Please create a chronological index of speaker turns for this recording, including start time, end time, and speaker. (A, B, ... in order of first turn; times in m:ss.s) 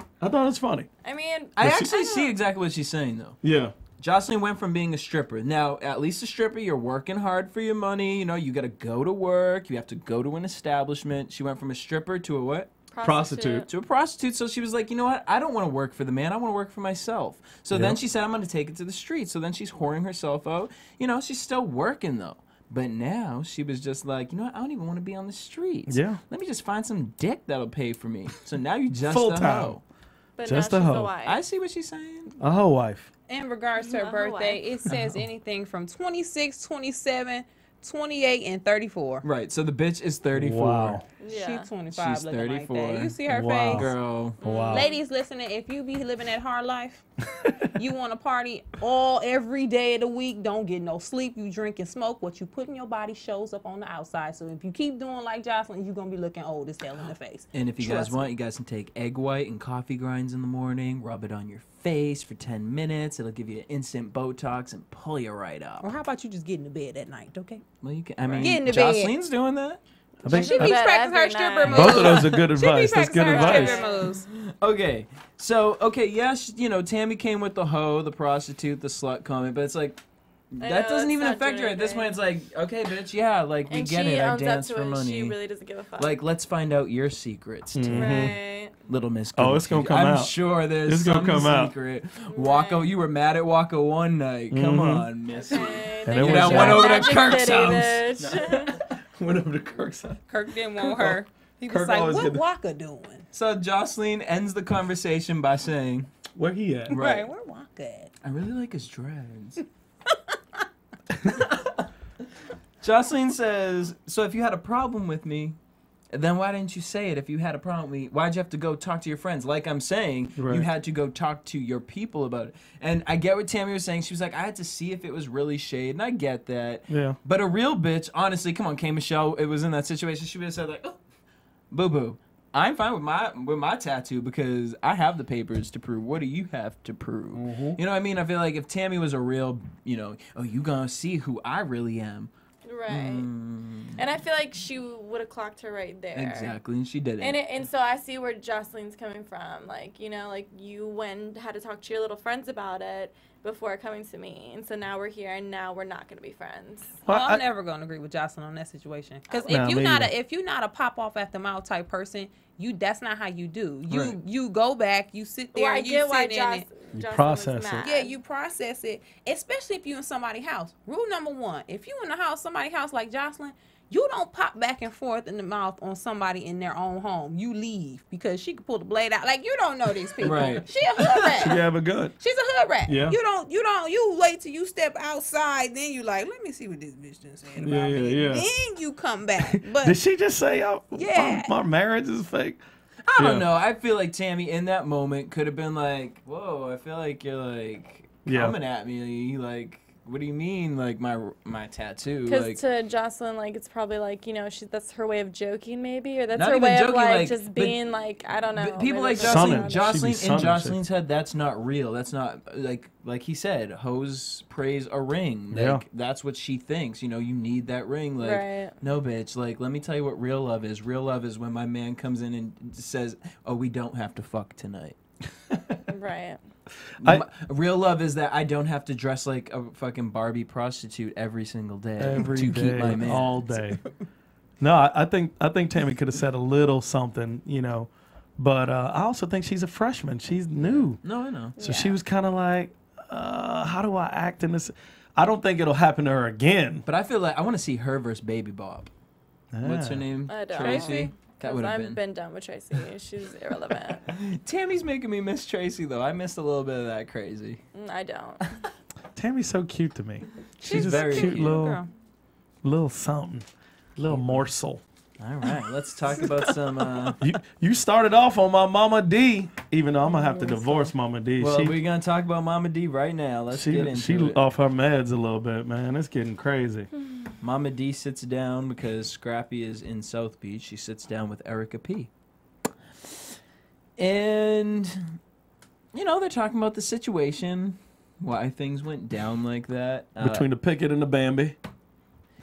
0:00.2-0:00.9 A
0:01.0-0:02.3 B
0:01.6-0:03.4 C
0:01.6-0:01.9 A
0:03.4-0:03.7 A
0:04.0-0:12.7 C
0:12.9-0:13.7 B
0:13.0-0:13.7 A
0:13.7-0:29.8 C
0:17.7-0:18.0 A
0:25.9-0:26.2 A
0:29.0-0:29.8 A
0:30.4-0:31.4 B
0:30.4-0:31.2 A
0:31.2-0:32.3 C
0:32.4-0:33.1 A
0:33.3-0:39.2 D
0:33.8-0:34.6 B
0:34.9-0:35.2 A
0:39.2-0:41.0 C
0:40.3-0:41.0 A
0:41.2-0:41.7 B
0:41.3-0:44.0 D
0:41.9-0:43.2 C
0:43.3-0:44.9 A
0:43.8-0:44.4 C
0:44.4-0:45.0 B
0:44.7-0:47.1 D
0:47.7-0:58.3 D
0:57.5-1:05.9 C
1:05.8-1:07.6 D
1:07.8-1:09.8 C
1:08.3-1:09.1 D
1:10.2-1:10.8 A
1:10.3-1:12.4 B
1:10.3-1:14.3 D
1:11.6-1:13.8 A
1:13.2-1:14.2 B
1:14.3-1:20.0 C
1:20.5-1:25.4 C
1:20.6-1:22.2 B
1:23.7-1:26.2 B
1:26.0-1:28.4 C
1:27.8-1:28.4 A
1:27.9-1:28.8 B
1:28.9-1:38.1 C
1:29.4-1:31.8 A
1:32.3-1:32.9 B
1:34.5-1:35.1 A
1:35.3-1:38.8 B
1:36.0-1:37.3 A
1:38.2-1:40.2 A
1:40.3-1:43.3 D
1:40.8-1:42.4 A
1:43.3-1:46.1 C
1:46.4-1:47.0 A
1:46.9-1:47.3 C
1:46.9-1:48.1 D
1:48.2-1:49.6 C
1:50.1-1:50.4 D
1:51.3-1:51.8 C
1:52.8-1:55.6 C
1:56.1-2:11.0 C
2:00.4-2:00.7 A
2:06.9-2:07.2 A
2:11.7-2:22.3 C
2:17.3-2:17.8 A
2:22.6-2:23.3 B
2:22.9-2:24.0 C
2:24.0-2:26.6 B
2:26.1-2:27.4 C
2:27.2-2:37.0 B
2:37.0-2:37.4 A
2:37.1-2:46.7 D
2:39.3-2:39.7 B
2:39.5-2:40.1 A
2:43.9-2:44.2 A
2:45.6-2:48.1 B
2:46.9-2:47.9 A
2:47.8-3:01.6 D
3:00.2-3:00.7 C
3:01.3-3:02.1 A
3:02.2-3:10.0 D
3:02.9-3:03.2 A
3:07.6-3:08.5 A
3:09.4-3:12.6 A
3:10.9-3:11.5 D
3:13.1-3:22.6 C
3:13.2-3:13.5 A
3:18.3-3:18.6 A
3:22.3-3:30.0 B
3:26.3-3:27.8 C
3:28.5-3:45.0 C
3:29.2-3:30.8 A
3:35.5-3:35.8 A
3:38.2-3:38.7 B
3:45.9-3:46.4 B
3:47.0-3:53.3 C
3:52.0-3:53.8 A
3:52.8-3:53.9 D
3:54.6-4:01.0 A
4:00.6-4:01.6 C
4:01.6-4:02.0 B
4:01.6-4:06.8 A
4:06.9-4:08.9 C
4:09.5-4:10.1 A
4:09.6-4:12.0 C
4:10.3-4:14.0 B
4:10.6-4:11.1 D
4:14.1-4:17.6 C
4:17.7-4:18.4 B
4:19.2-4:21.8 A
4:20.6-4:21.9 D
4:20.6-4:21.6 C
4:22.6-4:23.5 A
4:24.0-4:24.8 A
4:24.1-4:24.4 C
4:25.2-4:27.3 C
4:26.2-4:26.5 D
4:27.2-4:31.8 A
4:30.1-4:30.8 D
4:31.4-4:34.4 C
4:33.5-4:36.9 A
4:37.4-4:42.1 C
4:44.0-4:45.2 C
4:45.9-4:50.5 C
4:50.2-4:51.6 A